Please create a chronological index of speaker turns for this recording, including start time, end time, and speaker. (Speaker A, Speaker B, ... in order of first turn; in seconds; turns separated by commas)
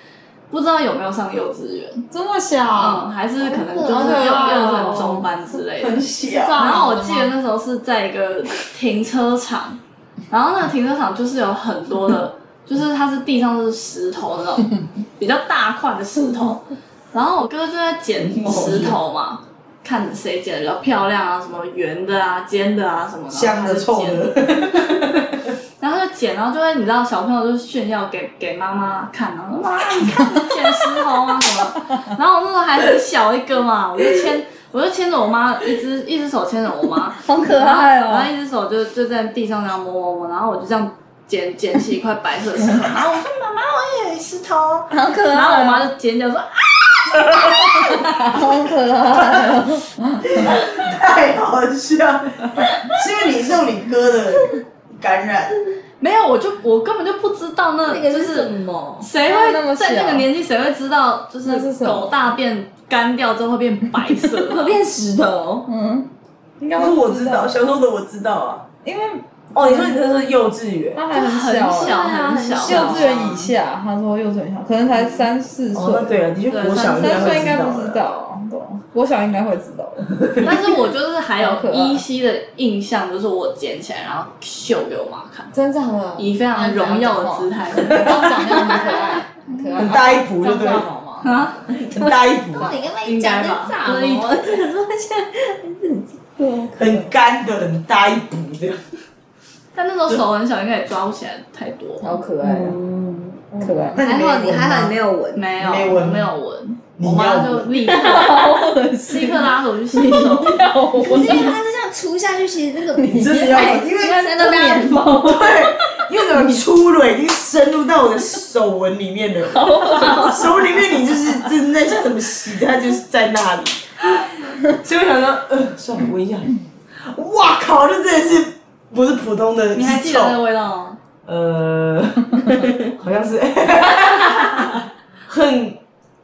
Speaker A: 0.5-2.0, Speaker B: 2.1-5.3, Speaker A: 2.8-6.0, Speaker C: 5.7-6.7, Speaker B: 6.2-7.3, Speaker A: 6.6-9.8, Speaker A: 10.3-24.3, Speaker C: 18.2-19.0, Speaker C: 23.3-25.5, Speaker A: 25.8-48.4, Speaker D: 37.2-38.3, Speaker C: 43.0-43.6, Speaker B: 44.9-45.9, Speaker B: 48.0-50.4, Speaker D: 48.4-49.8, Speaker C: 49.1-49.6, Speaker C: 50.2-55.6, Speaker A: 56.0-64.7, Speaker D: 57.8-59.1, Speaker B: 59.1-60.3, Speaker B: 61.4-62.2, Speaker D: 64.5-65.7, Speaker B: 65.7-66.1, Speaker B: 66.6-67.7, Speaker C: 66.7-68.6, Speaker B: 68.8-70.0, Speaker C: 69.5-71.0, Speaker B: 70.9-80.2, Speaker A: 71.1-73.5, Speaker D: 71.7-73.3, Speaker C: 75.7-78.0, Speaker A: 76.5-77.4, Speaker A: 80.4-85.5, Speaker B: 81.4-82.0, Speaker B: 85.5-91.5, Speaker A: 86.2-89.2, Speaker C: 89.7-90.9, Speaker A: 91.2-91.7, Speaker C: 91.7-92.8, Speaker D: 92.5-97.0, Speaker A: 93.0-94.5, Speaker C: 96.8-98.8, Speaker A: 99.7-102.2, Speaker B: 102.0-102.8, Speaker D: 102.4-105.5, Speaker B: 103.5-104.0, Speaker C: 103.9-105.0, Speaker A: 105.3-108.5, Speaker C: 105.6-106.3, Speaker C: 107.0-107.7, Speaker D: 107.8-109.5, Speaker B: 108.0-109.4, Speaker A: 109.1-111.5, Speaker B: 110.0-111.5, Speaker D: 111.0-115.5, Speaker B: 113.0-113.6, Speaker C: 113.0-123.9, Speaker B: 119.5-120.5, Speaker C: 124.7-126.5, Speaker C: 127.0-130.4, Speaker A: 129.7-131.0, Speaker C: 131.2-135.8